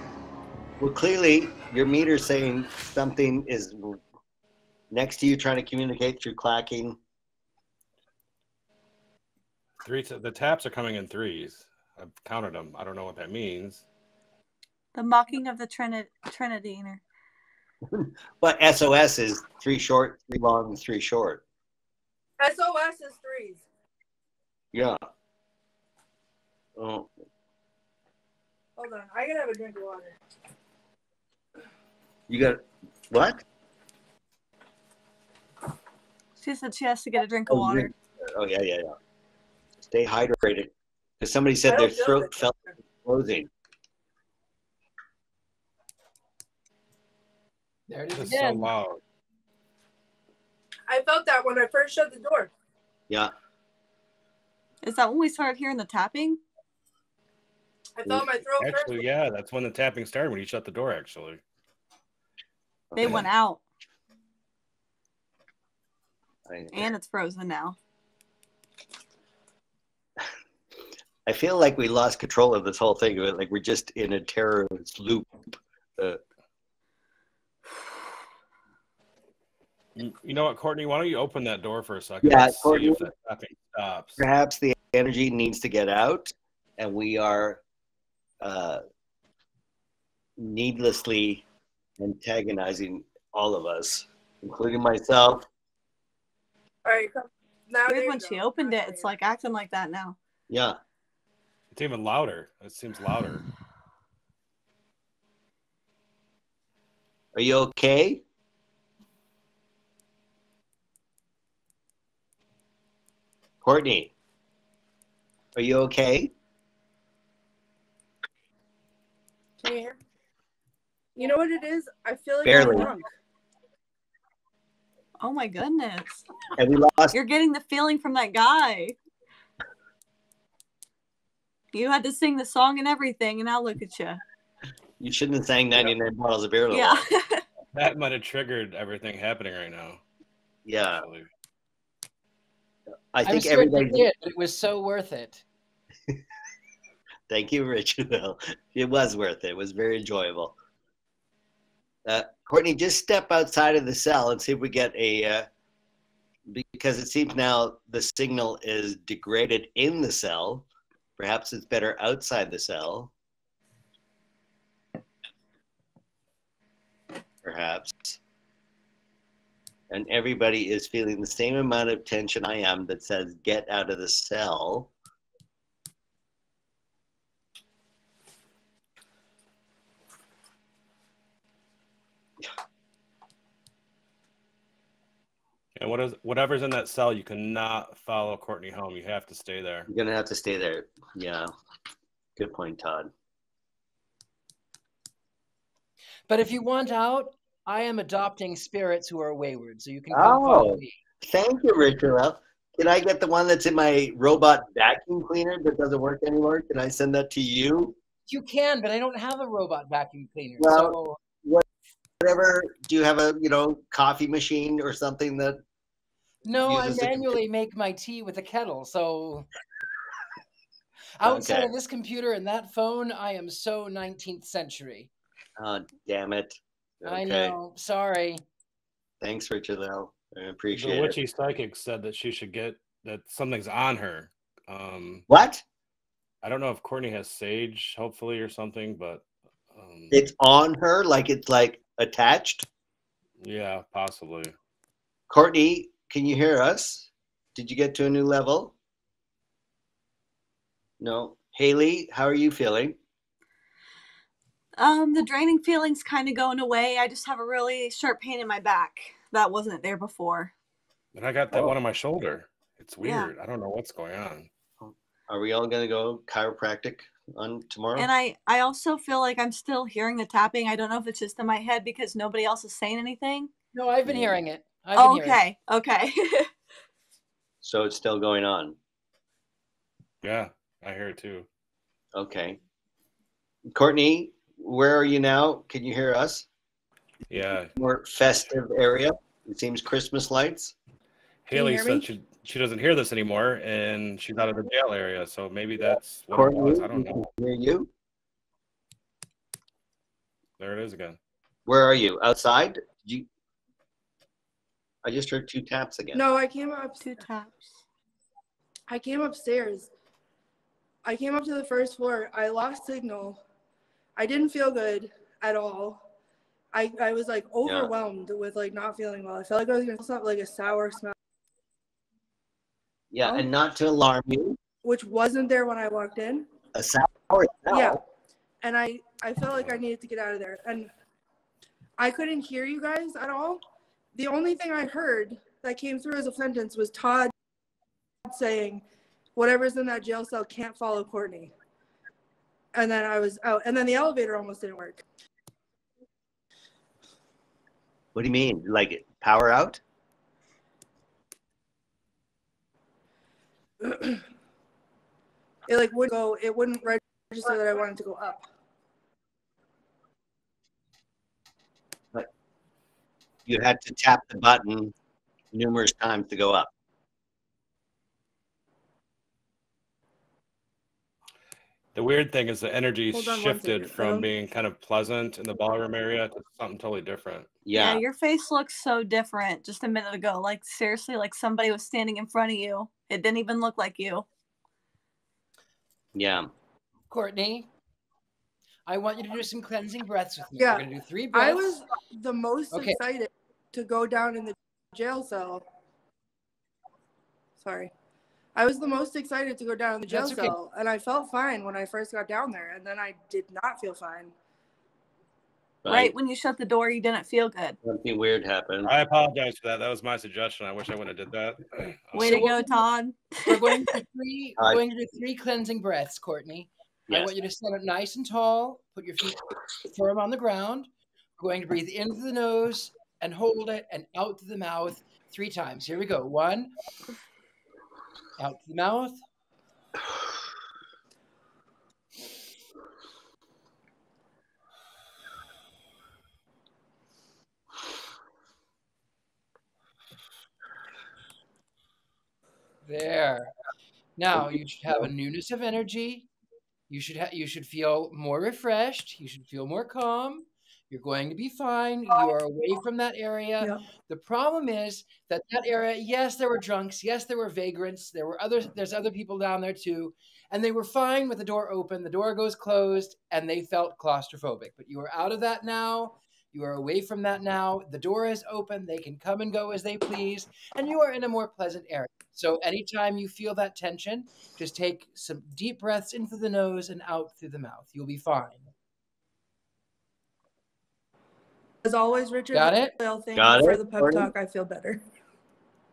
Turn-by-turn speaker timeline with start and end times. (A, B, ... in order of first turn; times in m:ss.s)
0:00.8-0:04.0 A
0:04.9-0:07.0 A
0:09.8-0:13.9 B
0:15.0-0:17.0 C
0:17.9-0:21.4 A
0:22.4-0:23.6 D
0:24.7-0:25.0 A
0:26.8-0:27.1 A
0:28.8-0:30.2 D
0:32.3-0:33.4 A
0:36.4-0:37.9 C
0:37.5-0:38.9 A
0:39.8-0:43.5 A
0:41.7-0:42.5 D
0:47.9-0:48.7 E
0:48.1-0:49.0 B
0:50.9-0:52.5 D
0:54.8-0:56.4 C
0:58.0-0:59.0 D
0:58.6-1:01.4 B
1:02.9-1:03.3 A
1:03.0-1:03.6 C
1:06.5-1:06.9 A
1:06.7-1:07.8 C
1:11.3-1:16.2 A
1:20.0-1:24.3 B
1:22.2-1:23.0 A
1:24.2-1:27.6 A
1:28.4-1:28.8 A
1:30.4-1:31.4 A
1:32.0-1:35.5 A
1:36.8-1:39.2 D
1:37.9-1:40.2 C
1:40.5-1:40.8 A
1:41.7-1:43.5 B
1:47.4-1:48.2 A
1:53.6-1:54.1 A
1:55.6-1:56.3 A
1:59.6-2:00.0 D
2:01.2-2:03.1 D
2:02.4-2:02.9 A
2:02.7-2:03.0 C
2:05.2-2:06.3 C
2:06.6-2:07.2 A
2:07.1-2:09.0 C
2:11.7-2:14.2 C
2:15.0-2:17.0 A
2:16.7-2:17.4 C
2:17.7-2:20.0 B
2:20.7-2:21.0 A
2:20.9-2:21.3 B
2:23.1-2:24.1 A
2:23.2-2:25.4 E
2:27.3-2:30.6 A
2:32.1-2:35.5 A
2:36.5-2:43.1 A
2:47.4-2:48.2 A
2:49.9-2:54.9 A
3:05.8-3:09.9 B
3:09.9-3:11.5 A
3:12.4-3:13.1 A
3:16.3-3:21.0 E
3:20.1-3:28.0 A
3:28.3-3:31.2 E
3:30.6-3:31.6 A
3:32.2-3:35.6 A
3:36.4-3:39.5 E
3:36.6-3:37.4 A
3:41.2-3:45.1 E
3:41.2-3:41.7 A
3:45.6-3:47.6 A
3:47.0-3:48.4 E
3:49.2-3:51.2 A
3:50.7-3:55.2 B
3:55.3-3:55.6 A
3:56.4-4:00.2 B
4:00.1-4:02.7 A
4:03.4-4:04.6 B
4:05.3-4:08.7 A
4:11.0-4:13.0 A
4:14.8-4:20.5 C
4:21.1-4:24.5 B
4:23.0-4:23.3 C
4:24.8-4:28.1 A
4:28.0-4:33.5 C
4:33.7-4:35.4 E
4:34.1-4:34.4 A
4:35.0-4:36.5 C
4:37.6-4:38.8 A
4:40.2-4:41.5 B
4:42.1-4:42.6 A
4:43.7-4:46.5 A
4:47.3-4:47.7 B
4:47.3-4:50.8 A
4:51.5-4:57.2 B
4:51.5-4:52.1 D
4:55.8-4:57.9 A
5:00.6-5:01.2 B
5:01.7-5:03.3 A
5:05.0-5:06.2 A
5:06.1-5:07.2 D
5:07.0-5:07.7 C
5:08.9-5:09.9 D
5:11.0-5:13.4 D
5:14.2-5:16.0 D
5:16.7-5:21.1 D
5:17.6-5:17.9 A
5:23.1-5:24.6 A
5:24.8-5:26.5 D
5:26.8-5:28.0 A
5:27.7-5:28.0 D
5:28.6-5:30.9 D
5:32.0-5:33.6 D
5:34.2-5:37.3 D
5:38.3-5:38.8 D
5:39.4-5:41.5 D
5:42.7-5:45.0 D
5:48.2-5:49.8 A
5:53.8-5:54.2 D
5:55.7-5:58.4 D
6:03.5-6:04.9 A
6:05.5-6:06.7 A
6:12.0-6:17.6 B
6:13.1-6:14.3 D
6:17.7-6:18.0 A
6:17.7-6:24.3 C
6:26.2-6:26.5 A
6:27.1-6:27.7 E
6:28.9-6:31.8 E
6:30.6-6:35.6 D
6:32.7-6:33.0 E
6:37.6-6:37.9 D
6:38.6-6:44.3 D
6:40.1-6:40.6 E
6:45.8-6:46.1 A
6:45.9-6:47.8 C
6:47.8-6:48.9 A
6:48.8-6:52.6 B
6:52.2-6:53.9 C
6:53.5-7:06.7 E
7:08.4-7:09.2 E
7:22.8-7:23.5 E
7:24.2-7:26.3 E
7:26.9-7:58.7 E
8:01.8-8:05.0 D
8:02.5-8:02.9 E
8:03.4-8:04.3 A